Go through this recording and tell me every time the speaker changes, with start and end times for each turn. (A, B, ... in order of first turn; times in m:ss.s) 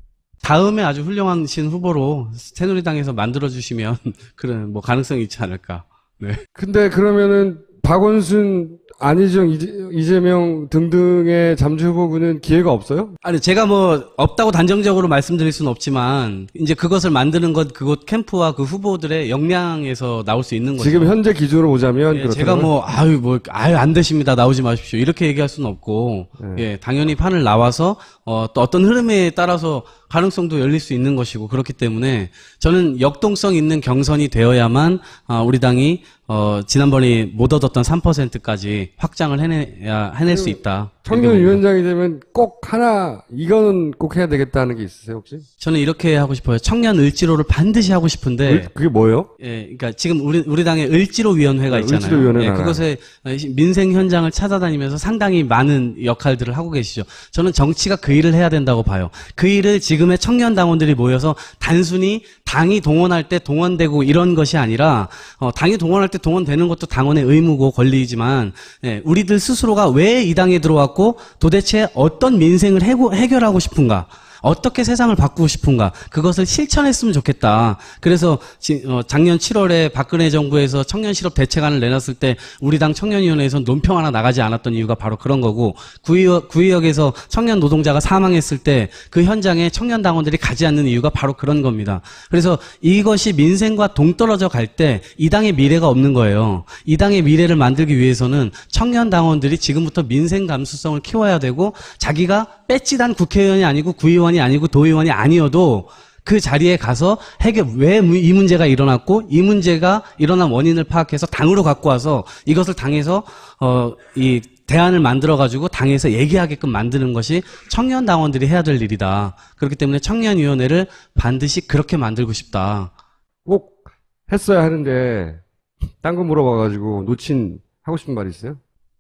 0:00.4-0:06.4 A
0:06.6-0:13.2 B
0:13.2-0:21.2 A
0:20.8-0:22.7 B
0:22.1-0:41.6 A
0:26.4-0:26.6 B
0:40.3-0:45.4 B
0:45.6-0:48.7 A
0:48.5-0:49.3 B
0:49.4-2:02.9 A
0:51.7-0:52.8 B
2:03.5-2:03.8 B
2:04.3-2:05.4 B
2:06.0-2:08.6 B